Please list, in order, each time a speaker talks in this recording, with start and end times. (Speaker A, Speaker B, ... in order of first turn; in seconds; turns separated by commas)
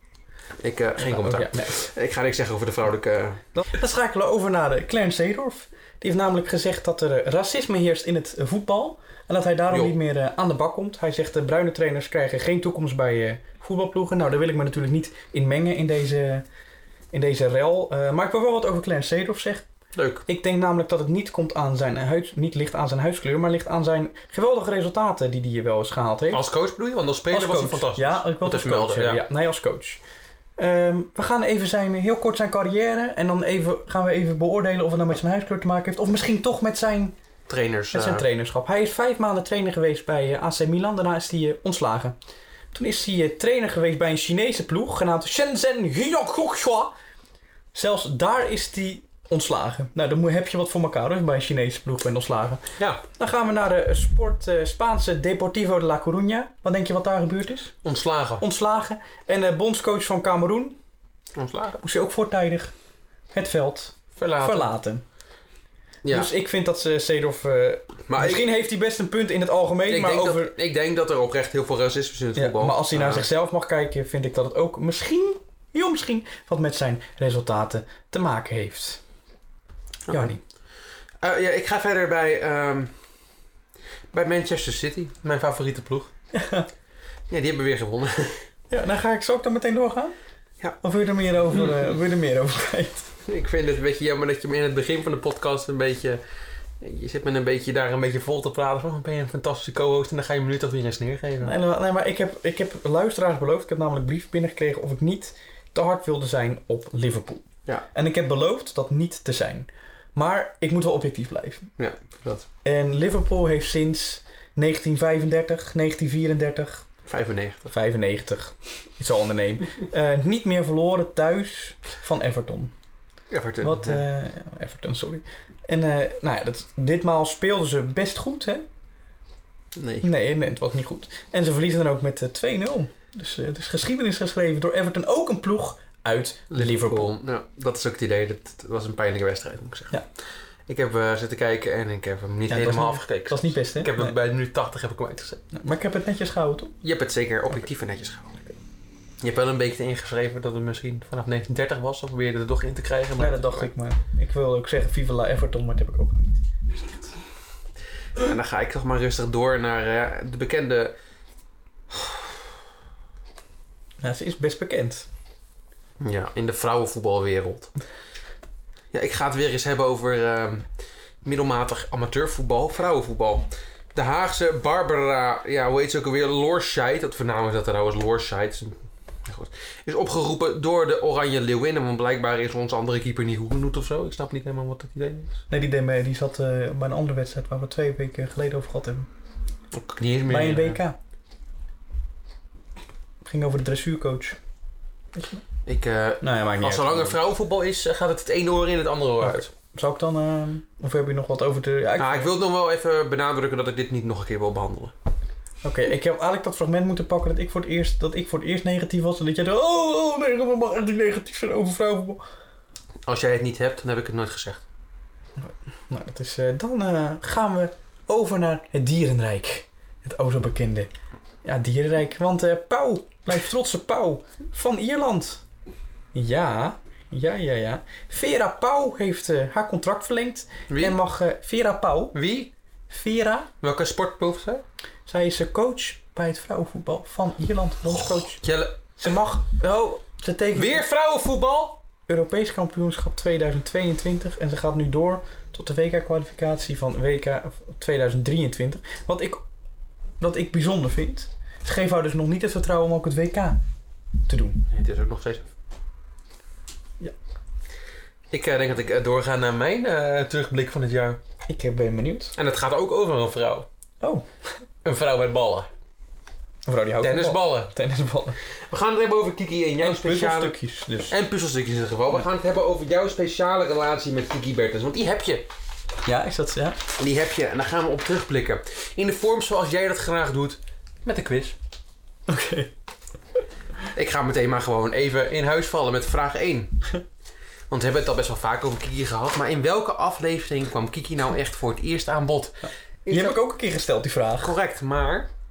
Speaker A: 0.6-3.4, Speaker B: 1.0-1.7, Speaker B: 3.5-16.4, Speaker B: 17.1-19.7, Speaker A: 20.0-20.2, Speaker B: 20.3-26.4, Speaker A: 26.3-29.2, Speaker B: 27.3-30.0, Speaker B: 30.6-37.2, Speaker A: 37.5-38.2, Speaker B: 37.9-42.2, Speaker B: 42.7-47.0, Speaker B: 47.7-57.8, Speaker A: 52.8-53.0, Speaker A: 57.8-58.4, Speaker B: 58.4-60.8, Speaker A: 61.4-61.8, Speaker B: 61.8-62.7, Speaker B: 63.3-65.0, Speaker A: 64.2-64.7, Speaker A: 66.0-66.3, Speaker B: 66.1-70.5, Speaker A: 68.1-68.5, Speaker A: 69.9-73.3, Speaker B: 72.3-79.0, Speaker A: 80.1-80.3, Speaker B: 80.1-80.4, Speaker A: 81.2-82.9, Speaker A: 84.1-86.1, Speaker B: 86.3-86.7, Speaker A: 87.3-88.4, Speaker B: 88.7-90.1, Speaker B: 90.8-93.1, Speaker A: 93.3-96.2, Speaker A: 96.8-101.5, Speaker B: 101.4-111.7, Speaker A: 111.8-112.5, Speaker B: 112.6-116.8, Speaker A: 117.1-117.7, Speaker B: 117.7-122.7, Speaker A: 123.3-124.0, Speaker B: 123.6-128.7, Speaker A: 129.8-130.1, Speaker B: 130.0-137.1, Speaker A: 136.5-140.0, Speaker A: 140.7-145.4, Speaker B: 142.5-144.1, Speaker B: 145.5-146.7, Speaker A: 146.8-148.5, Speaker A: 149.2-153.7, Speaker B: 153.2-157.1, Speaker A: 158.2-160.9, Speaker A: 161.9-162.2, Speaker B: 164.0-165.1, Speaker A: 166.0-167.7, Speaker A: 168.9-170.7, Speaker A: 171.2-185.4, Speaker B: 185.5-189.1, Speaker A: 189.7-190.8, Speaker B: 190.3-191.0, Speaker B: 193.2-194.4, Speaker B: 195.1-195.4, Speaker A: 195.7-199.5, Speaker B: 196.2-197.2, Speaker B: 199.2-202.3, Speaker A: 202.0-204.9, Speaker B: 205.6-212.2, Speaker A: 213.1-214.6, Speaker B: 215.4-220.9, Speaker B: 221.4-225.4, Speaker B: 226.1-232.2, Speaker A: 230.7-231.0, Speaker A: 232.1-232.5, Speaker B: 232.9-233.5, Speaker A: 233.6-234.6, Speaker B: 235.1-238.4, Speaker A: 238.4-238.8, Speaker B: 239.0-240.8, Speaker A: 240.6-241.8, Speaker B: 242.1-249.4, Speaker B: 250.2-253.6, Speaker B: 254.3-254.6, Speaker A: 254.7-255.5, Speaker A: 258.3-261.2, Speaker B: 261.5-262.3, Speaker A: 262.4-263.7, Speaker B: 264.0-264.3, Speaker A: 264.8-265.7, Speaker B: 266.7-268.4, Speaker A: 267.0-267.7, Speaker A: 268.7-270.6, Speaker B: 269.8-271.1, Speaker A: 271.1-275.5, Speaker B: 276.1-276.8, Speaker A: 277.0-281.6, Speaker B: 282.3-282.7, Speaker A: 283.9-286.8, Speaker A: 287.7-293.4, Speaker B: 293.1-294.5, Speaker A: 294.4-295.3